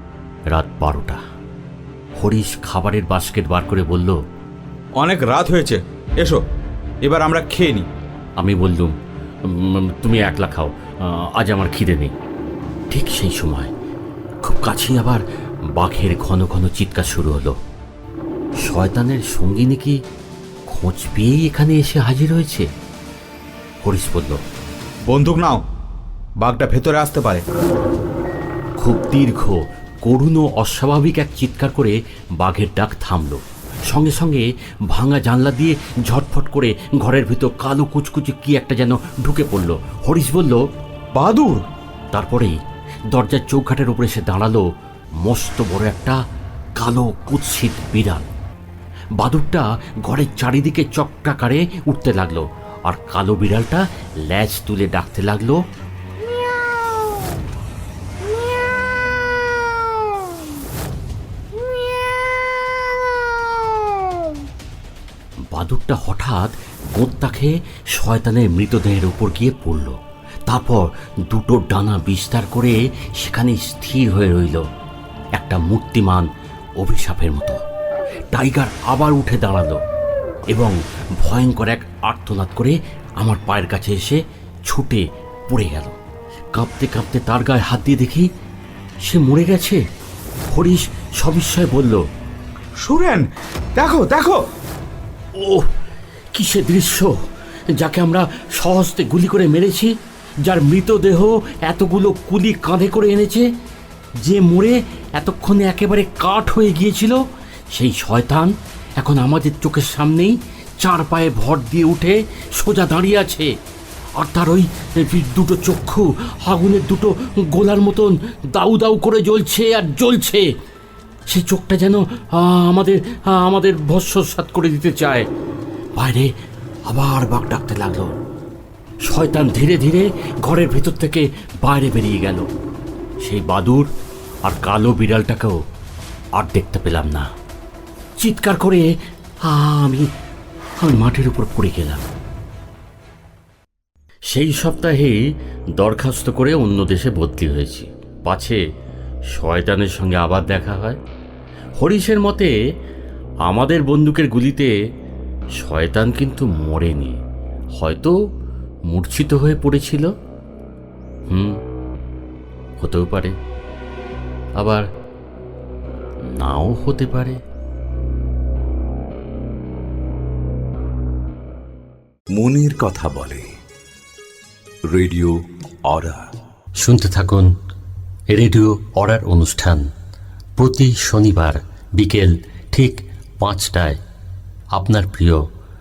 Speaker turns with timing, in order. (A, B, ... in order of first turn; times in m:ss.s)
0:00.5-0:01.2 A
0:02.2-0:04.2 A
0:05.0-0:06.4 B
0:07.0-0:07.9 B
0:08.4-0:12.1 A
0:12.9-0:13.7 A
0:14.4-0:17.6 A
0:18.6-0:20.0 A
0:20.7-0:22.7 A
0:23.8-0:24.4 A
0:25.1-0:25.6 B
0:26.4-0:27.4 B
0:28.8-0:40.6 A
0:41.1-0:41.6 B
0:42.1-0:44.7 A
0:45.2-0:46.2 A
0:46.8-0:48.3 A
0:49.2-0:55.6 A
1:05.5-1:14.6 A
1:15.4-1:17.6 A
1:18.3-1:19.8 A
1:20.5-1:26.0 A
1:26.5-1:28.3 A
1:29.0-1:29.8 A
1:30.5-1:32.0 A
1:32.8-1:34.4 B
1:35.3-1:35.7 A
1:36.3-1:37.2 A
1:37.7-1:43.5 A
1:44.2-1:53.5 A
1:54.2-2:00.5 A
2:01.3-2:05.3 A
2:06.0-2:06.3 A
2:06.9-2:08.2 A
2:09.0-2:12.5 A
2:13.2-2:13.9 A
2:14.4-2:15.6 A
2:16.3-2:17.3 A
2:18.2-2:20.1 A
2:20.8-2:22.1 A
2:24.3-2:25.2 A
2:25.8-2:28.6 A
2:29.3-2:31.0 A
2:31.8-2:32.5 A
2:33.4-2:34.7 A
2:35.6-2:37.2 A
2:37.7-2:38.2 A
2:38.9-2:40.1 A
2:41.3-2:41.6 A
2:42.8-2:43.4 A
2:44.6-2:44.8 A
2:46.2-2:47.4 A
2:52.3-2:53.5 C
2:54.8-2:56.2 C
2:56.8-2:57.6 A
2:58.3-2:59.9 A
3:00.6-3:04.0 A
3:04.7-3:05.5 A